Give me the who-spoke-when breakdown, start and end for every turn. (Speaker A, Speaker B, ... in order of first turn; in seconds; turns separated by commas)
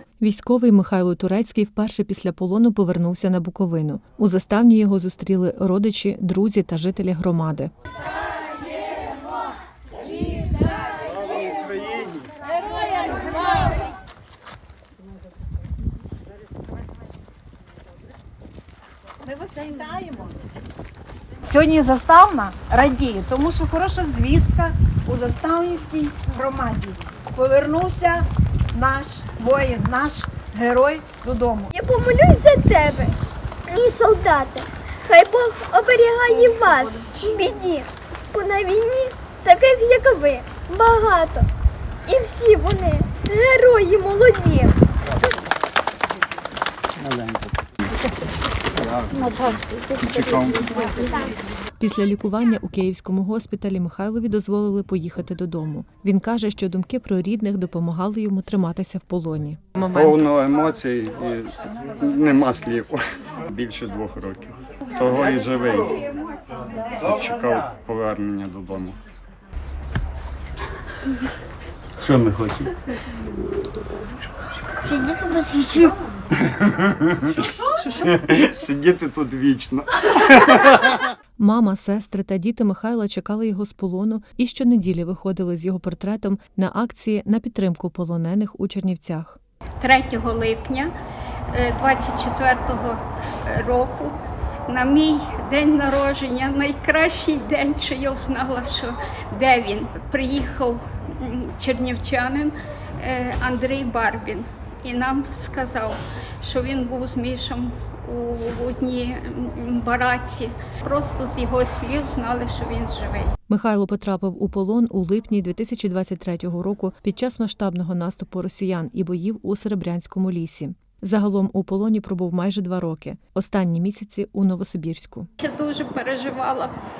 Speaker A: 0.2-7.7, Speaker B: 19.2-20.4, Speaker B: 21.4-31.7, Speaker C: 31.7-33.1, Speaker C: 33.7-41.5, Speaker C: 42.0-44.7, Speaker D: 50.0-50.8, Speaker A: 51.8-60.2, Speaker D: 59.9-66.1, Speaker D: 66.8-69.0, Speaker D: 72.0-72.7, Speaker C: 74.9-75.9, Speaker D: 76.8-77.3, Speaker D: 77.9-81.0, Speaker A: 81.4-89.4, Speaker E: 89.8-90.9, Speaker E: 91.5-94.2, Speaker E: 94.7-113.3, Speaker A: 113.5-125.3, Speaker E: 125.4-126.7